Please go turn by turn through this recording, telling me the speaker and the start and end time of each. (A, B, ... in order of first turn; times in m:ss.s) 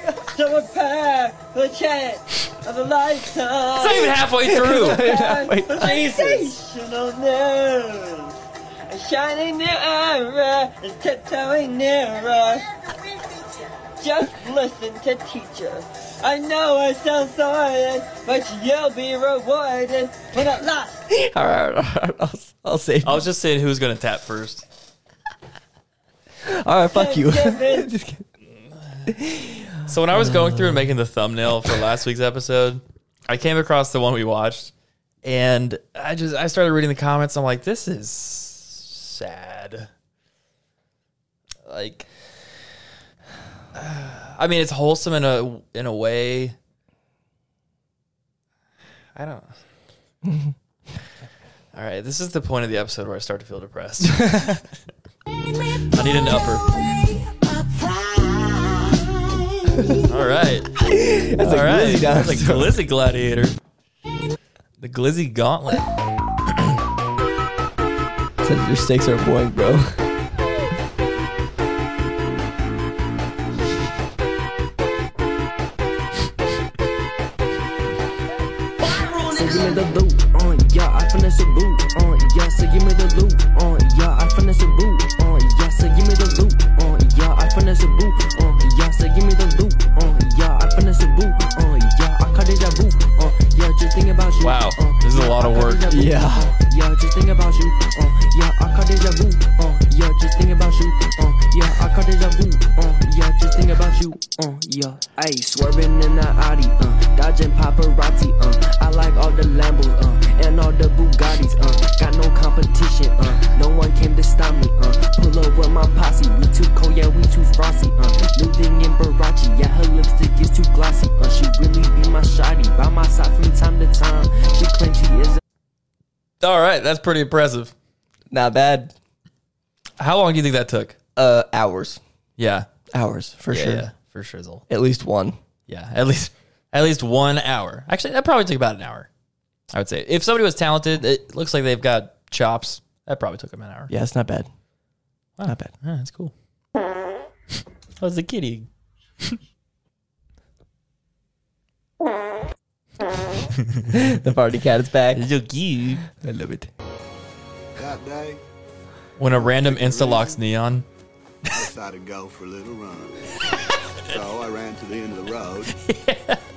0:00.3-0:04.1 A
0:03.8-0:05.1 B
0:04.4-0:06.5 C
0:04.8-0:12.7 A
0:14.0-0:21.0 A
0:21.1-0:23.3 C
0:23.0-0:24.6 B
0:26.4-0:28.2 C
0:26.9-0:27.8 A
0:29.1-0:30.9 C
0:29.9-0:34.7 B
0:35.2-0:39.9 B
0:41.6-0:42.1 B
0:43.7-0:46.6 B
0:49.2-0:49.6 B
0:50.2-0:50.5 C
0:51.7-0:54.4 B
0:54.1-0:54.6 C
0:55.9-0:56.6 B
1:00.1-1:00.7 B
1:00.8-1:02.8 C
1:01.4-1:03.6 B
1:04.8-1:05.8 B
1:08.4-1:09.9 C
1:19.3-2:05.4 D
1:34.4-1:35.9 B
1:35.9-1:36.5 C
2:06.4-2:07.7 B
2:08.3-2:08.9 C
2:10.0-2:11.0 B
2:11.2-2:12.0 C
2:12.4-2:12.7 B
2:12.9-2:13.9 C
2:13.5-2:14.6 B
2:14.7-2:15.4 C
2:15.7-2:19.1 B
2:19.7-2:23.9 B
2:23.9-2:24.5 C
2:25.4-2:26.3 B
2:25.4-2:25.7 C
2:28.0-2:28.7 B
2:33.9-2:35.2 C
2:35.1-2:36.0 B
2:36.0-2:36.7 C
2:37.8-2:38.4 E
2:39.2-2:40.8 B
2:39.3-2:40.4 E
2:41.5-2:43.1 E
2:44.1-2:45.7 E
2:45.8-2:46.4 B